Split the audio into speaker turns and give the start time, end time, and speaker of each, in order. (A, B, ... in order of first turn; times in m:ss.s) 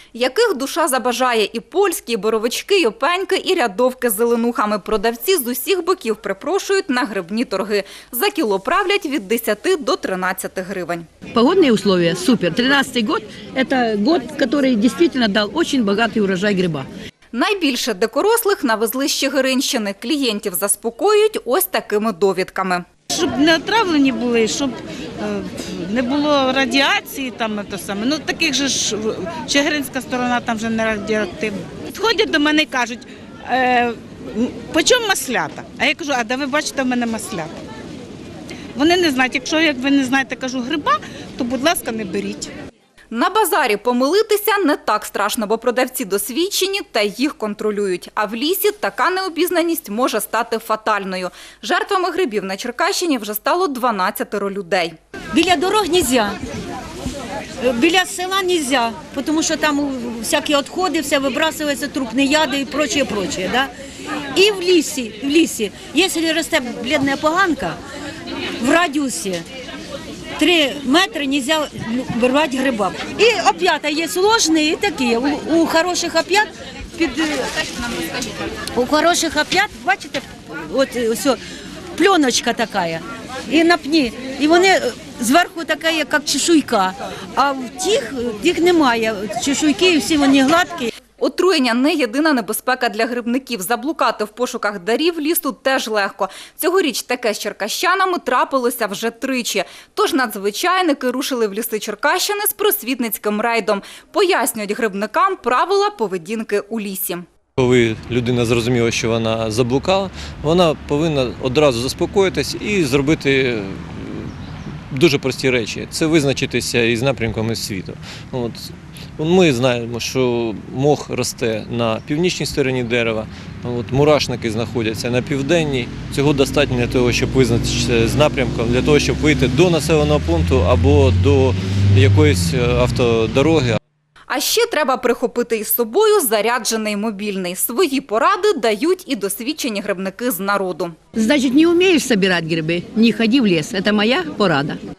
0:00.2-0:11.1 A
0:11.3-0:16.9 B
0:17.3-0:22.8 A
0:23.1-0:37.6 C
0:38.8-0:42.5 C
0:43.1-0:55.0 A
0:55.3-0:56.4 D
0:57.6-1:03.7 D
1:04.4-1:07.8 D
1:08.6-1:09.4 D
1:10.4-1:17.5 D
1:18.8-1:21.4 D
1:22.0-1:30.9 D
1:31.2-1:47.2 A
1:47.6-1:54.4 E
1:54.9-2:13.8 E
2:14.3-2:21.0 A
2:21.2-2:24.8 B